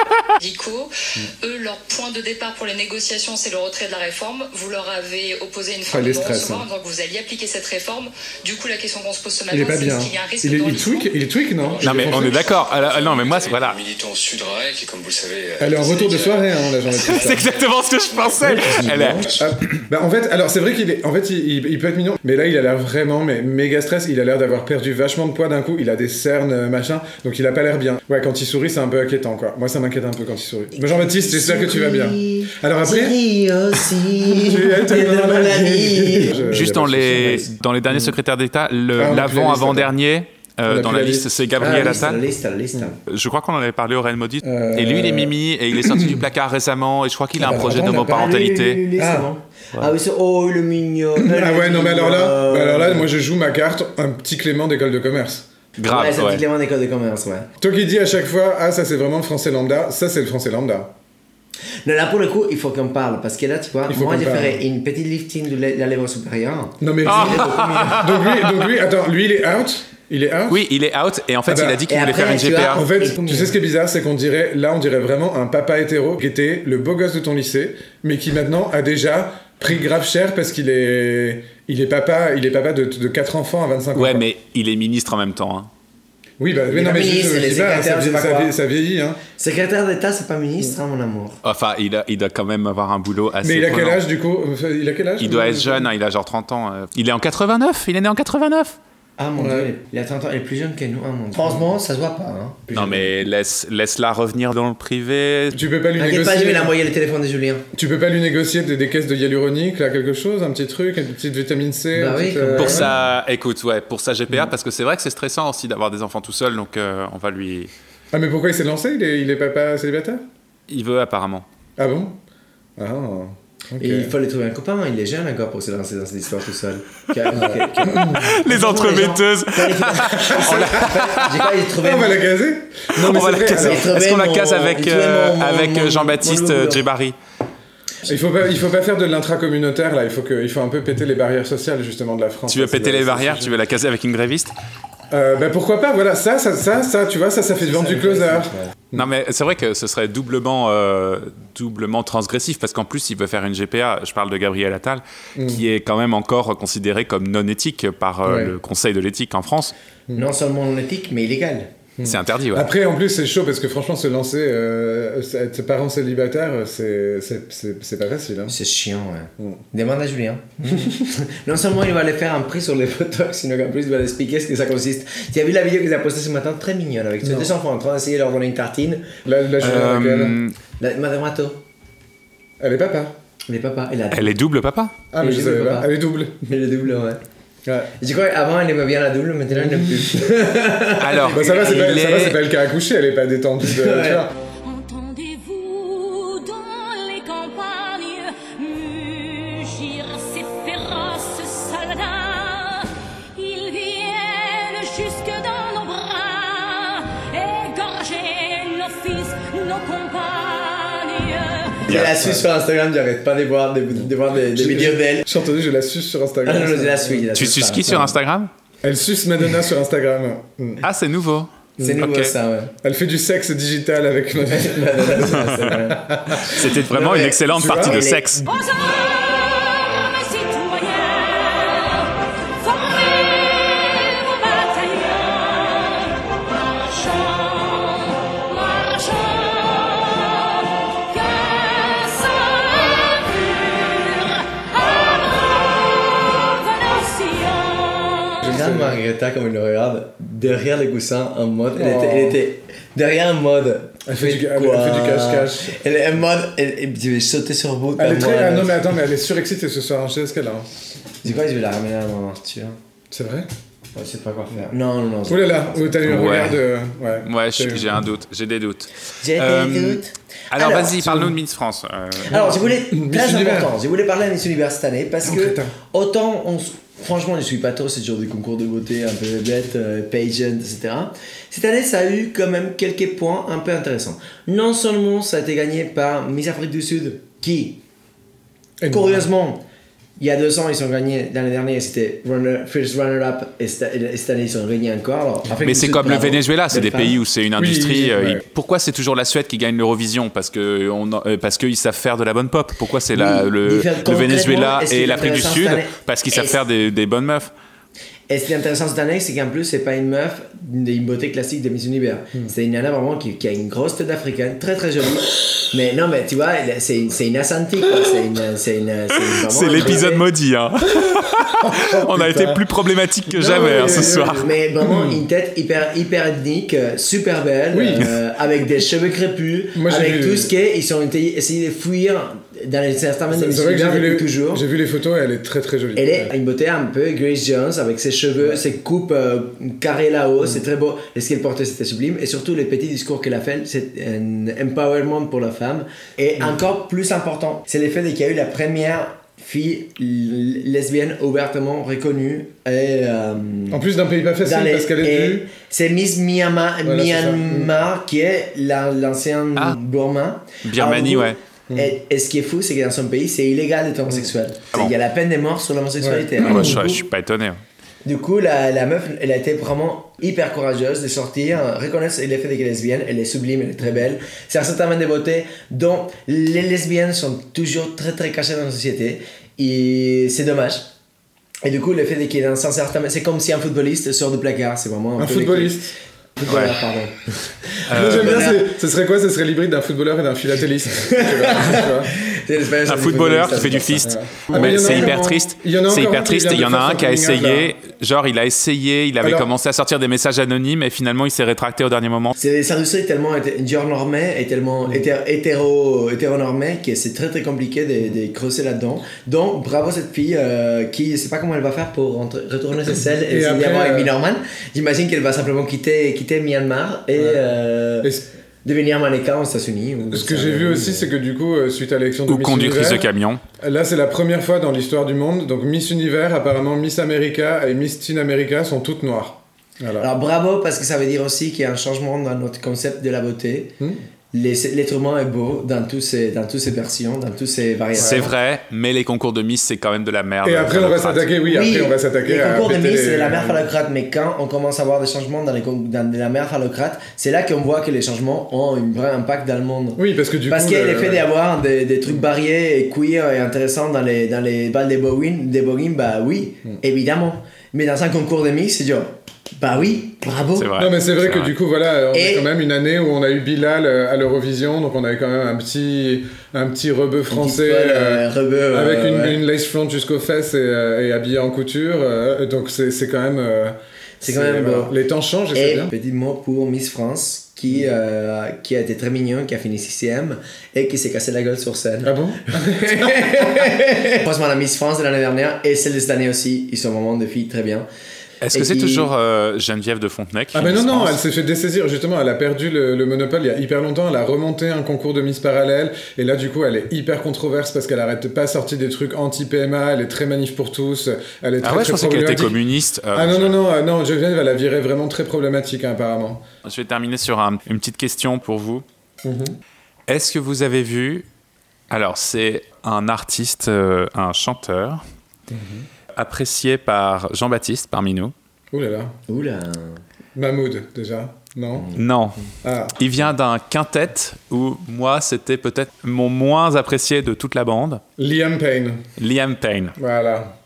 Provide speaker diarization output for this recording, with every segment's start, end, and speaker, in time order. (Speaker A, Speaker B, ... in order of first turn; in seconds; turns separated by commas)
Speaker A: 0.4-11.1, Speaker B: 5.9-6.7, Speaker B: 9.5-12.4, Speaker C: 11.6-17.4, Speaker D: 11.8-13.8, Speaker B: 15.6-17.5, Speaker D: 16.9-19.8, Speaker C: 18.1-18.4, Speaker E: 18.4-19.4, Speaker B: 19.4-33.2, Speaker E: 30.8-36.5, Speaker B: 34.3-38.1, Speaker D: 36.4-42.2, Speaker B: 39.0-39.9, Speaker B: 40.7-42.0, Speaker E: 41.6-43.0, Speaker D: 43.1-48.8, Speaker B: 44.4-46.2, Speaker B: 47.4-48.1, Speaker E: 47.8-53.1, Speaker B: 49.0-49.3, Speaker B: 51.1-55.5, Speaker D: 55.8-56.4, Speaker E: 55.9-57.5, Speaker B: 57.6-60.9, Speaker E: 61.9-68.1, Speaker B: 63.9-64.6, Speaker B: 66.8-70.7, Speaker D: 67.1-68.6, Speaker D: 70.5-72.8, Speaker B: 71.5-71.8, Speaker E: 71.9-73.5, Speaker B: 72.7-84.2, Speaker D: 83.9-85.7, Speaker B: 86.4-89.2, Speaker E: 86.7-88.5, Speaker E: 89.4-91.4, Speaker D: 91.4-94.0, Speaker B: 93.4-95.9, Speaker D: 95.2-98.8, Speaker E: 99.2-103.1, Speaker B: 99.4-99.7, Speaker D: 102.7-105.6, Speaker B: 105.5-106.7, Speaker E: 106.0-107.6, Speaker B: 107.7-112.9, Speaker E: 111.9-112.9, Speaker D: 112.6-117.7, Speaker B: 118.1-120.2, Speaker D: 120.7-121.5, Speaker B: 121.8-122.2, Speaker B: 122.8-124.1, Speaker E: 123.8-132.2, Speaker B: 127.3-128.3, Speaker D: 128.1-131.6, Speaker B: 130.3-131.0, Speaker B: 131.8-133.9, Speaker D: 132.9-137.2, Speaker E: 133.5-136.8, Speaker B: 138.1-143.6, Speaker D: 142.5-144.5, Speaker B: 145.1-149.1, Speaker E: 147.6-148.7, Speaker D: 148.9-159.7, Speaker B: 155.4-155.6, Speaker B: 158.2-158.5, Speaker E: 160.1-161.7, Speaker B: 162.0-168.6, Speaker D: 162.0-162.7, Speaker E: 168.5-179.2, Speaker B: 177.2-177.5, Speaker B: 179.2-180.4, Speaker D: 179.6-180.6, Speaker E: 180.8-181.6, Speaker B: 182.6-183.1, Speaker E: 183.5-184.3, Speaker D: 184.1-184.9, Speaker B: 185.1-186.5, Speaker E: 185.2-185.9, Speaker E: 186.4-187.2, Speaker B: 187.7-187.9, Speaker E: 188.0-192.0, Speaker B: 189.5-190.2, Speaker D: 191.0-192.4, Speaker B: 191.3-194.3, Speaker E: 193.6-194.3, Speaker F: 194.6-211.9, Speaker E: 211.9-215.3, Speaker D: 211.9-212.2, Speaker B: 211.9-212.4, Speaker B: 214.0-217.2, Speaker E: 216.4-218.1, Speaker D: 217.3-218.5, Speaker B: 218.8-220.8, Speaker D: 220.8-222.3, Speaker B: 221.8-222.1, Speaker E: 221.8-222.7, Speaker B: 222.8-226.6, Speaker E: 224.5-228.4, Speaker D: 226.4-228.4, Speaker B: 227.5-228.1, Speaker F: 228.4-248.6, Speaker B: 248.4-249.0, Speaker E: 248.4-258.8, Speaker B: 251.8-252.4, Speaker B: 254.1-255.8, Speaker B: 258.0-260.7, Speaker E: 261.2-262.8, Speaker B: 263.1-263.5, Speaker E: 263.9-266.2, Speaker B: 265.3-267.9, Speaker D: 266.1-266.6, Speaker D: 267.2-272.4, Speaker E: 269.2-271.3, Speaker E: 272.3-287.8, Speaker B: 272.3-273.7, Speaker B: 275.2-275.7, Speaker B: 288.8-289.3, Speaker E: 288.9-289.6, Speaker E: 290.2-297.2, Speaker D: 295.6-307.5, Speaker B: 297.6-298.4, Speaker E: 303.1-306.6, Speaker E: 308.3-320.3, Speaker D: 319.3-324.5, Speaker B: 321.0-322.6, Speaker B: 323.3-325.2, Speaker E: 323.6-334.6, Speaker B: 327.7-328.1, Speaker B: 329.8-330.5, Speaker B: 333.3-336.3, Speaker E: 335.9-353.8, Speaker B: 353.7-355.5, Speaker E: 354.4-367.1, Speaker B: 356.9-357.8, Speaker D: 360.6-361.4, Speaker B: 366.0-366.8, Speaker D: 366.4-367.6, Speaker E: 368.1-380.9, Speaker E: 381.6-388.7, Speaker B: 385.2-385.9, Speaker D: 386.5-386.8, Speaker D: 387.9-388.5, Speaker B: 387.9-392.1, Speaker E: 390.9-395.4, Speaker D: 392.9-402.3, Speaker B: 394.1-397.7, Speaker B: 399.2-399.5, Speaker E: 402.4-418.1, Speaker B: 413.3-414.1, Speaker B: 417.1-417.4, Speaker B: 418.0-418.3, Speaker E: 418.6-421.1, Speaker B: 420.1-423.1, Speaker D: 422.3-423.4, Speaker B: 423.6-430.1, Speaker E: 430.0-433.8, Speaker E: 434.3-438.3, Speaker B: 437.9-438.2, Speaker D: 438.0-441.3, Speaker B: 440.4-443.6, Speaker E: 441.4-460.7, Speaker B: 450.0-451.3, Speaker D: 460.6-461.5, Speaker B: 460.8-475.9, Speaker E: 462.1-462.5, Speaker E: 467.3-469.4, Speaker E: 474.2-474.9, Speaker E: 475.5-487.9, Speaker B: 482.0-483.8, Speaker D: 488.4-491.2, Speaker E: 488.5-489.1, Speaker B: 490.5-502.6, Speaker D: 501.6-503.6, Speaker B: 503.1-506.4, Speaker D: 506.6-508.9, Speaker B: 509.2-509.6, Speaker D: 510.1-511.3, Speaker D: 511.9-515.0, Speaker B: 515.5-515.9, Speaker D: 516.1-518.3, Speaker B: 518.7-519.1, Speaker E: 519.3-520.0, Speaker B: 520.4-521.9, Speaker D: 521.9-522.4, Speaker B: 522.6-523.0, Speaker D: 523.0-528.0, Speaker B: 528.2-529.1, Speaker D: 529.2-529.9, Speaker B: 530.0-530.5